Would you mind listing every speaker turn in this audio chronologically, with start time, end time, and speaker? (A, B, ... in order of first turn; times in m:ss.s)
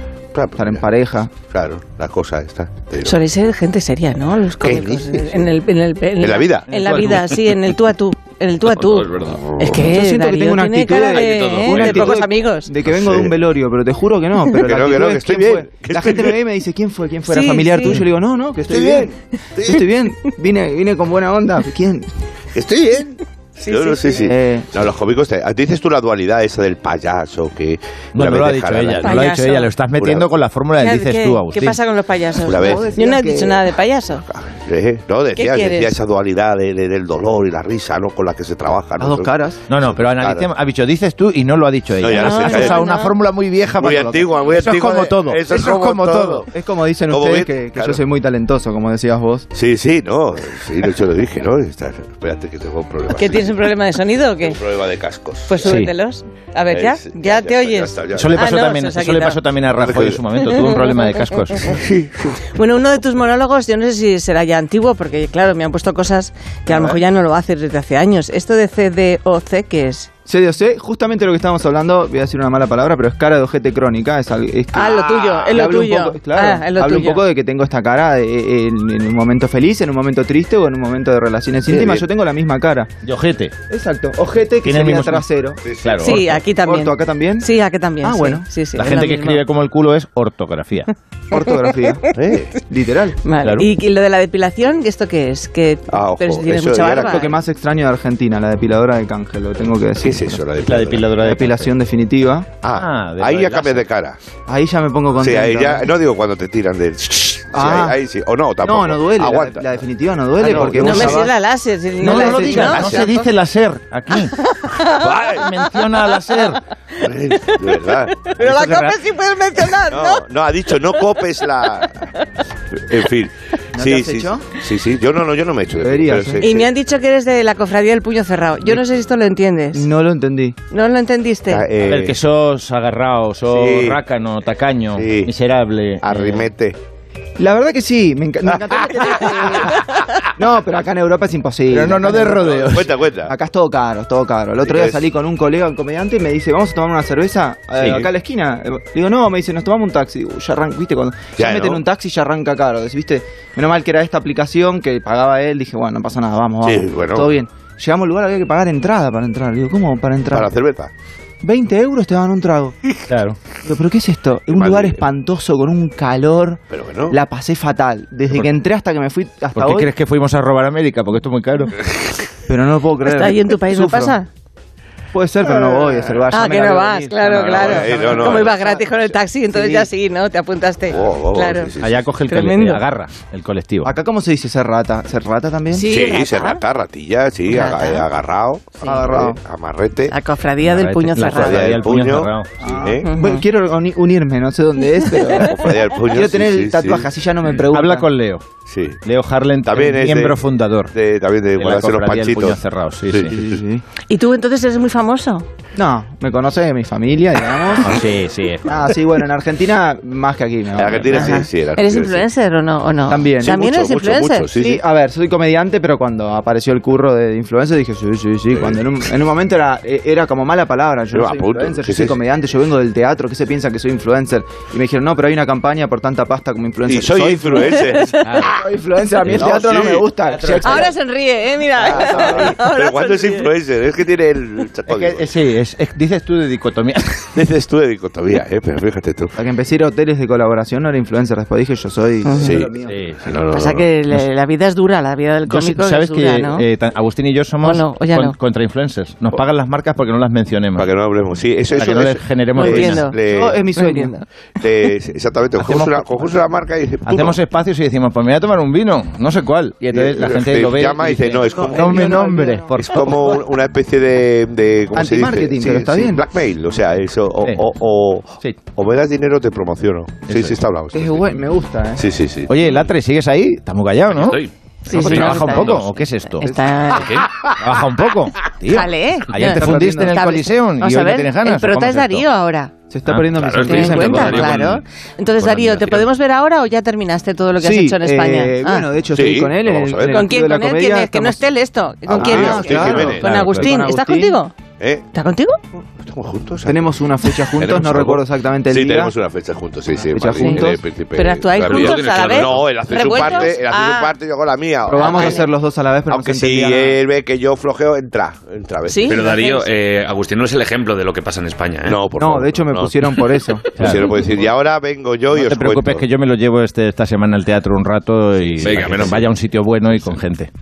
0:00.3-0:03.2 A
0:00.6-0:01.3 B
0:03.0-0:12.7 C
0:04.6-0:05.5 A
0:06.2-0:06.7 A
0:06.7-0:07.2 D
0:09.3-0:09.7 A
0:09.7-0:22.1 B
0:12.9-0:13.4 A
0:14.6-0:16.4 A
0:17.3-0:18.0 C
0:18.6-0:19.8 A
0:22.6-0:29.2 A
0:23.6-0:24.2 C
0:24.2-0:24.7 B
0:28.2-0:31.8 D
0:29.0-0:29.7 C
0:30.0-0:30.3 A
0:30.8-0:34.2 C
0:32.4-0:33.0 A
0:32.5-0:33.6 B
0:34.3-0:40.5 A
0:35.4-0:36.0 C
0:39.0-0:39.6 B
0:39.7-0:46.4 D
0:42.0-0:42.8 A
0:42.1-0:43.1 C
0:43.8-0:46.5 A
0:46.5-0:49.5 B
0:47.1-0:48.0 A
0:49.5-0:53.6 A
0:53.1-0:54.6 C
0:54.4-0:55.7 A
0:55.5-0:59.4 C
0:55.6-0:55.9 D
0:56.7-0:58.5 A
0:58.1-1:01.8 D
0:59.8-1:00.2 A
1:01.7-1:02.4 A
1:02.6-1:10.1 C
1:10.3-1:22.9 B
1:14.7-1:17.2 C
1:21.7-1:22.0 A
1:23.0-1:23.5 D
1:23.7-1:25.6 B
1:24.6-1:25.3 D
1:25.6-1:26.2 A
1:25.8-1:26.2 D
1:26.0-1:29.4 C
1:26.6-1:27.5 B
1:28.0-1:28.4 B
1:28.8-1:30.9 D
1:31.3-1:32.1 B
1:32.1-1:32.6 A
1:32.7-1:33.2 B
1:33.2-1:37.3 C
1:33.4-1:33.7 D
1:35.9-1:37.4 A
1:37.0-1:40.4 B
1:40.0-1:41.2 A
1:40.6-1:41.7 D
1:41.2-1:42.5 B
1:42.6-1:44.2 A
1:42.7-1:43.9 D
1:44.5-1:45.9 B
1:45.2-1:49.7 A
1:47.6-1:48.0 B
1:48.6-1:51.3 B
1:50.4-1:51.3 A
1:50.4-1:51.0 D
1:50.8-1:53.3 C
1:52.0-1:52.8 B
1:52.0-1:54.4 D
1:52.6-1:53.0 A
1:54.5-1:55.1 C
1:55.0-1:55.4 A
1:55.1-1:56.6 D
1:57.0-1:58.3 A
1:58.1-2:00.2 C
1:58.4-1:58.9 D
1:59.9-2:02.1 A
2:02.9-2:06.6 A
2:03.8-2:04.5 B
2:05.8-2:06.5 B
2:06.4-2:09.8 C
2:09.7-2:10.6 B
2:10.7-2:11.7 C
2:11.5-2:12.2 A
2:11.8-2:16.5 D
2:13.5-2:14.0 A
2:15.0-2:15.3 A
2:16.0-2:16.8 A
2:17.4-2:22.7 B
2:18.7-2:19.4 A
2:21.7-2:22.9 D
2:22.5-2:23.3 A
2:23.3-2:40.5 B
2:24.6-2:25.0 A
2:27.8-2:28.1 D
2:31.4-2:31.8 A
2:36.6-2:37.3 A
2:40.3-2:40.9 A
2:41.4-2:42.8 B
2:43.1-2:43.4 D
2:43.6-2:49.9 B
2:44.5-2:45.0 A
2:46.7-2:47.2 A
2:49.5-2:51.7 D
2:52.5-2:54.2 B
2:53.1-2:54.3 C
2:55.1-2:58.8 B
2:56.3-3:01.7 C
2:57.6-2:58.8 A
2:59.5-2:59.9 B
3:00.9-3:02.0 A
3:01.8-3:03.9 D
3:02.3-3:02.8 C
3:03.8-3:05.9 B
3:05.7-3:06.6 C
3:05.9-3:10.2 A
3:07.5-3:08.0 C
3:08.8-3:09.4 B
3:10.1-3:11.7 C
3:10.6-3:12.5 D
3:11.3-3:13.1 A
3:12.6-3:15.6 B
3:13.0-3:13.4 C
3:15.4-3:17.1 A
3:16.1-3:18.1 B
3:17.7-3:18.5 D
3:18.7-3:19.0 A
3:19.0-3:20.9 D
3:19.7-3:20.4 A
3:20.9-3:22.6 A
3:21.6-3:23.4 D
3:23.1-3:23.5 A
3:23.3-3:23.8 B
3:24.1-3:25.5 C
3:25.8-3:28.0 B
3:27.8-3:28.8 D
3:28.7-3:31.4 B
3:30.8-3:32.3 A
3:31.1-3:34.5 C
3:33.1-3:33.6 B
3:33.4-3:34.8 A
3:34.6-3:50.9 B
3:38.5-3:38.8 A
3:41.1-3:42.2 A
3:46.9-3:48.2 A
3:48.2-3:48.6 D
3:49.3-3:49.5 D
3:49.3-3:50.1 A
3:50.4-3:50.9 D
3:50.6-3:53.5 C
3:51.9-3:52.5 B
3:51.9-3:55.2 A
3:54.9-3:57.3 D
3:57.4-3:59.3 A
3:59.4-4:03.0 B
4:02.2-4:02.6 C
4:02.4-4:02.7 A
4:02.8-4:03.3 D
4:03.2-4:03.8 A
4:03.5-4:06.6 C
4:05.5-4:10.9 D
4:07.6-4:08.4 C
4:10.8-4:13.6 A
4:11.7-4:13.1 D
4:12.6-4:13.2 C
4:13.3-4:14.2 B
4:13.8-4:14.2 C
4:14.6-4:17.4 A
4:15.6-4:16.4 D
4:17.1-4:23.2 D
4:19.9-4:22.2 A
4:21.6-4:22.7 B
4:22.8-4:31.3 A
4:25.0-4:26.2 B
4:30.3-4:30.6 D
4:30.9-4:32.1 B
4:32.0-4:32.5 A
4:32.5-4:36.5 D
4:34.2-4:34.5 E
4:34.9-4:37.2 C
4:35.1-4:35.8 E
4:37.0-4:37.3 E
4:37.6-4:42.3 D
4:38.7-4:42.7 C
4:39.4-4:40.2 B
4:42.9-4:44.6 B
4:43.1-4:44.5 D
4:43.4-4:44.8 E
4:43.7-4:48.9 C
4:45.4-4:46.0 D
4:47.6-4:51.5 B
4:49.1-4:50.2 A
4:50.1-4:54.6 C
4:52.1-4:53.3 A
4:52.2-4:54.4 B
4:55.1-4:55.6 C
4:56.0-4:56.9 A
4:56.6-4:59.1 B
4:57.6-5:05.4 A
5:00.1-5:00.8 B
5:00.4-5:04.1 C
5:01.6-5:03.2 E
5:04.9-5:07.0 B
5:04.9-5:05.5 C
5:06.1-5:09.4 A
5:08.9-5:09.7 C
5:09.1-5:12.0 E
5:11.9-5:12.6 A
5:12.2-5:13.9 B
5:13.8-5:14.2 D
5:13.8-5:16.0 A
5:15.3-5:20.5 D
5:18.6-5:19.3 E